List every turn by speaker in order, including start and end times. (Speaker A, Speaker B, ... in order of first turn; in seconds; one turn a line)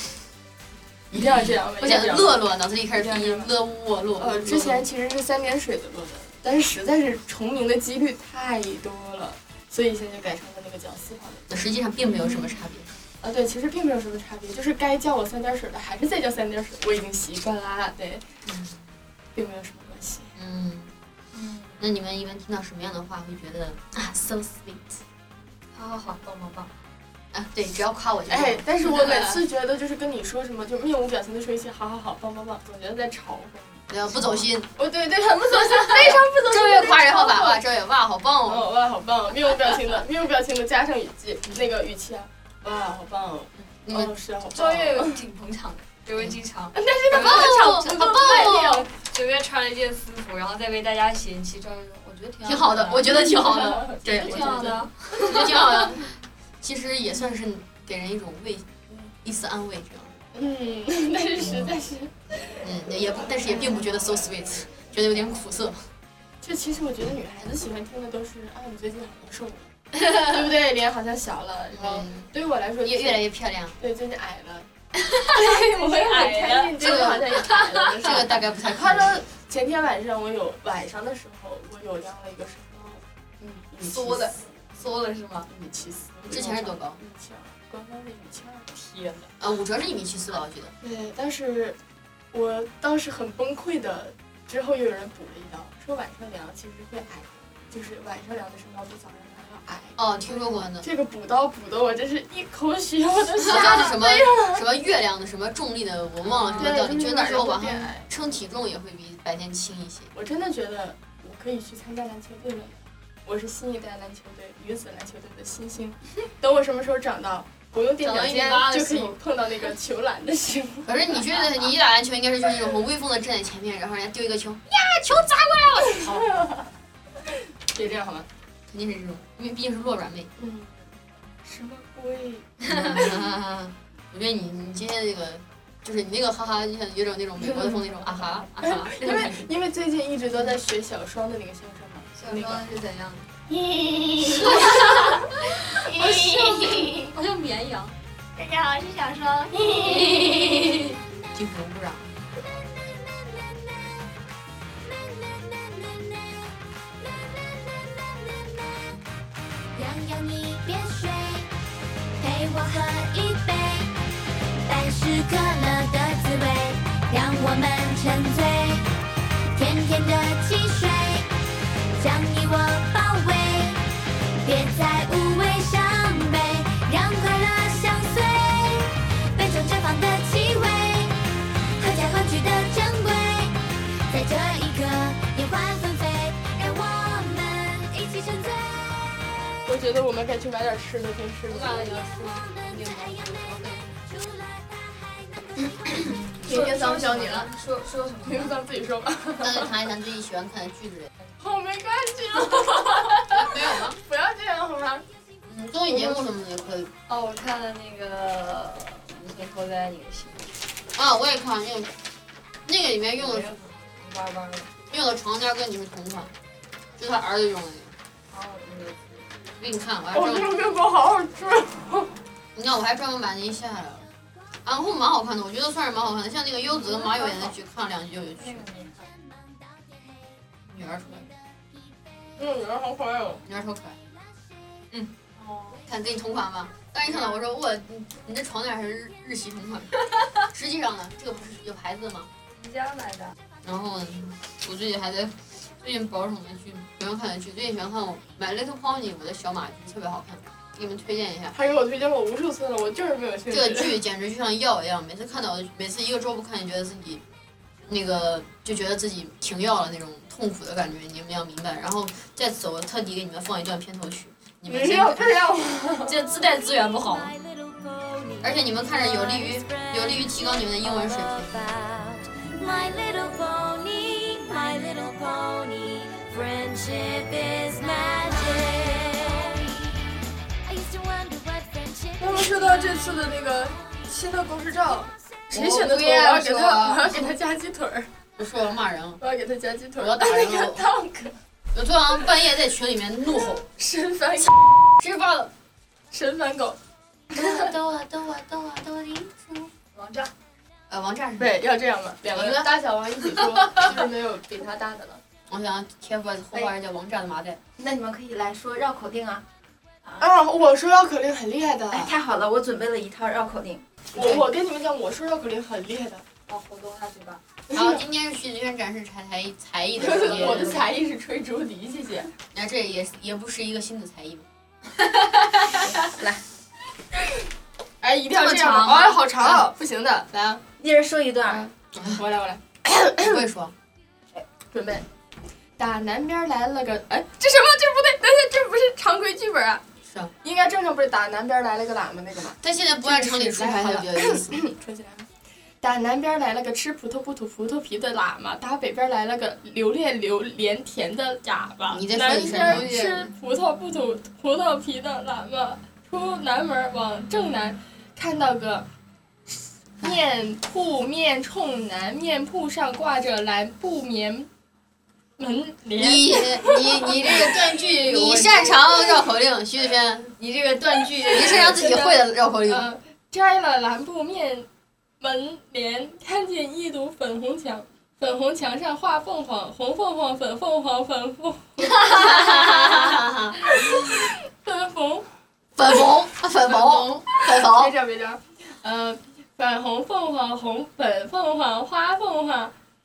Speaker A: 1.1-2.4
Speaker B: 1.1-4.9
Speaker A: 2.9-3.5
Speaker A: 4.2-11.4
Speaker B: 11.5-12.9
Speaker A: 13.2-18.2
Speaker B: 18.4-18.8
Speaker A: 19.4-20.3
Speaker B: 20.4-20.9
Speaker C: 21.3-21.8
Speaker B: 21.8-25.0
Speaker C: 25.7-26.7
Speaker B: 27.3-29.4
Speaker A: 28.3-33.9
Speaker B: 33.9-34.7
Speaker A: 34.8-37.6
Speaker B: 35.9-38.7
Speaker A: 38.5-45.2
Speaker B: 43.8-44.1
Speaker C: 44.5-55.8
Speaker A: 46.7-48.9
Speaker B: 47.1-48.8
Speaker B: 52.4-60.2
Speaker A: 53.9-54.8
Speaker A: 60.3-62.6
Speaker B: 62.6-65.9
Speaker A: 66.4-73.2
Speaker B: 71.7-72.3
Speaker B: 72.8-73.8
Speaker A: 73.8-74.7
Speaker A: 75.3-83.0
Speaker C: 75.7-76.8
Speaker B: 76.8-79.2
Speaker C: 83.5-85.5
Speaker A: 83.7-84.4
Speaker A: 85.5-89.3
Speaker B: 86.3-87.0
Speaker B: 89.4-90.8
Speaker A: 90.8-91.8
Speaker A: 92.3-104.6
Speaker B: 100.0-100.9
Speaker B: 103.4-110.1
Speaker C: 106.3-106.8
Speaker A: 106.5-108.1
Speaker A: 110.1-121.7
Speaker B: 118.0-119.2
Speaker B: 120.8-126.3
Speaker A: 127.6-128.3
Speaker B: 128.7-130.3
Speaker A: 130.4-130.9
Speaker A: 131.4-133.1
Speaker B: 132.7-139.5
Speaker A: 138.6-142.8
Speaker C: 142.2-143.3
Speaker A: 144.2-145.0
Speaker B: 146.0-147.0
Speaker C: 146.1-146.6
Speaker C: 147.1-147.9
Speaker D: 148.4-149.5
Speaker A: 149.5-150.1
Speaker B: 149.7-152.2
Speaker D: 153.1-154.0
Speaker D: 154.9-158.9
Speaker D: 159.7-161.5
Speaker D: 162.2-168.9
Speaker D: 169.5-171.3
Speaker D: 171.9-181.2
Speaker D: 181.8-189.3
Speaker A: 189.7-191.8
Speaker B: 191.5-193.9
Speaker D: 191.9-193.4
Speaker D: 194.0-196.0
Speaker C: 196.1-198.6
Speaker A: 196.5-196.8
Speaker A: 198.2-199.7
Speaker B: 199.4-201.1
Speaker A: 201.4-205.1
Speaker B: 203.3-204.0
Speaker B: 205.4-206.9
Speaker C: 207.1-210.6
Speaker B: 210.9-211.9
Speaker B: 212.7-213.6
Speaker C: 213.2-214.7
Speaker B: 214.9-216.3
Speaker B: 217.0-217.9
Speaker C: 218.3-219.3
Speaker B: 219.6-220.6
Speaker A: 220.1-222.2
Speaker B: 222.6-224.1
Speaker B: 224.6-228.8
Speaker C: 227.0-227.3
Speaker C: 228.4-229.2
Speaker B: 230.7-231.3
Speaker A: 232.4-233.4
Speaker B: 233.4-234.0
Speaker C: 235.4-235.8
Speaker B: 235.8-242.3
Speaker C: 242.6-243.3
Speaker B: 243.6-251.6
Speaker A: 251.5-254.0
Speaker B: 253.5-257.2
Speaker B: 257.9-265.4
Speaker A: 264.7-266.2
Speaker B: 266.0-267.4
Speaker D: 267.1-268.5
Speaker B: 268.4-271.7
Speaker D: 269.0-279.9
Speaker D: 280.6-282.8
Speaker A: 282.2-288.1
Speaker C: 285.5-287.3
Speaker B: 288.4-289.2
Speaker A: 289.2-291.4
Speaker B: 290.0-290.8
Speaker B: 291.7-293.6
Speaker A: 293.8-294.9
Speaker B: 295.0-295.5
Speaker A: 296.1-296.8
Speaker A: 297.3-297.7
Speaker C: 299.9-300.3
Speaker B: 300.9-301.6
Speaker A: 301.4-305.2
Speaker B: 302.3-302.7
Speaker B: 305.5-307.6
Speaker E: 307.8-309.4
Speaker A: 310.2-312.1
Speaker E: 312.0-313.9
Speaker A: 314.1-316.2
Speaker C: 316.5-317.4
Speaker A: 317.7-318.0
Speaker B: 317.7-320.8
Speaker A: 320.0-322.3
Speaker B: 322.5-324.4
Speaker A: 328.0-330.6
Speaker C: 328.3-329.6
Speaker E: 331.0-331.3
Speaker A: 331.5-333.4
Speaker B: 331.9-332.2
Speaker B: 333.2-333.7
Speaker A: 334.7-335.1
Speaker A: 335.8-339.8
Speaker A: 340.4-345.3
Speaker B: 342.6-344.6
Speaker A: 345.8-358.9
Speaker B: 351.9-353.3
Speaker A: 359.5-364.5
Speaker A: 365.4-367.7
Speaker B: 366.0-370.4
Speaker C: 367.2-368.7
Speaker C: 370.4-371.7
Speaker A: 370.9-374.7
Speaker B: 371.3-372.9
Speaker A: 375.2-385.3
Speaker B: 382.0-383.6
Speaker B: 385.8-387.9
Speaker A: 386.7-392.7